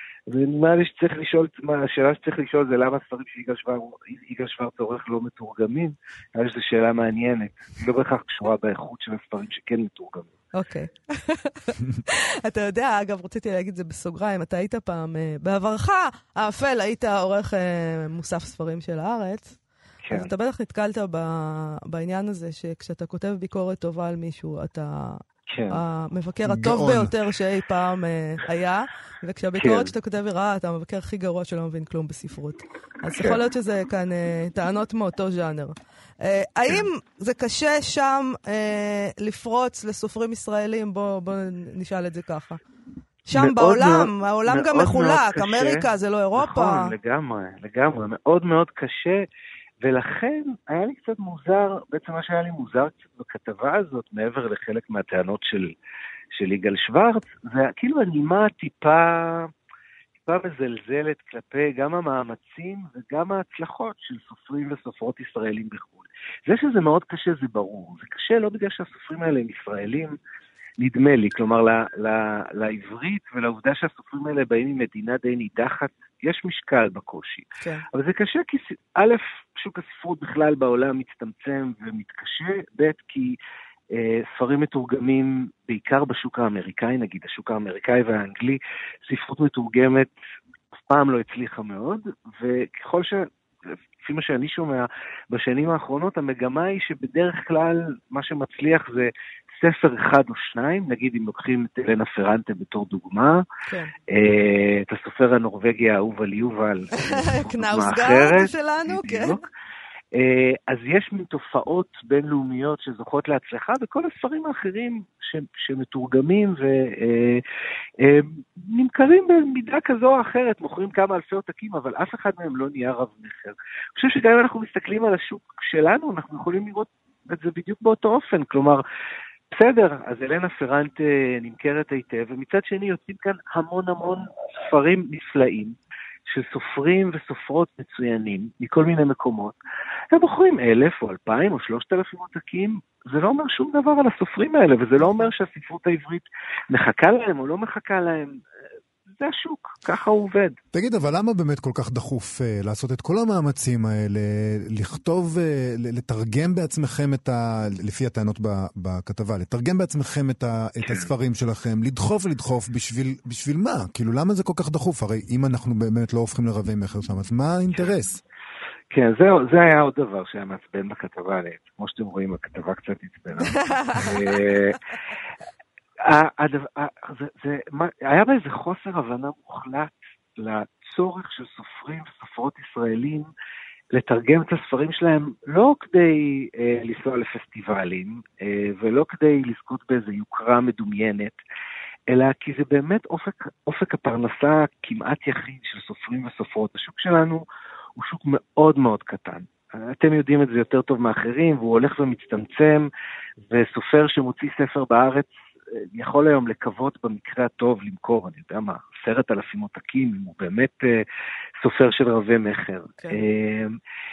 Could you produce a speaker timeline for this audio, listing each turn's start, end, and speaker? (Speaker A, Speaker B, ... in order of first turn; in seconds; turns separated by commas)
Speaker A: 0.3-10.3, Speaker B: 10.5-19.6, Speaker A: 20.0-20.3, Speaker B: 20.1-42.6, Speaker A: 25.5-25.8, Speaker C: 26.4-27.1, Speaker A: 29.6-29.9, Speaker A: 33.1-33.4, Speaker B: 43.3-46.9, Speaker A: 43.3-49.2, Speaker A: 49.8-55.7, Speaker A: 56.4-59.5, Speaker A: 60.2-70.2, Speaker A: 70.8-83.3, Speaker A: 83.9-90.1, Speaker A: 90.9-93.3, Speaker A: 94.0-103.4, Speaker A: 104.1-109.4, Speaker B: 107.0-109.4, Speaker A: 110.2-117.4, Speaker A: 118.0-128.8, Speaker A: 129.5-135.8, Speaker A: 136.3-139.6, Speaker A: 140.1-148.4, Speaker B: 145.0-145.3, Speaker A: 149.2-150.6, Speaker C: 150.7-168.2, Speaker A: 160.8-161.1, Speaker A: 168.9-174.8, Speaker B: 173.4-174.2, Speaker A: 176.0-183.3, Speaker A: 183.9-191.4, Speaker A: 192.1-197.4, Speaker A: 198.0-202.9, Speaker A: 203.4-211.0, Speaker A: 211.6-213.8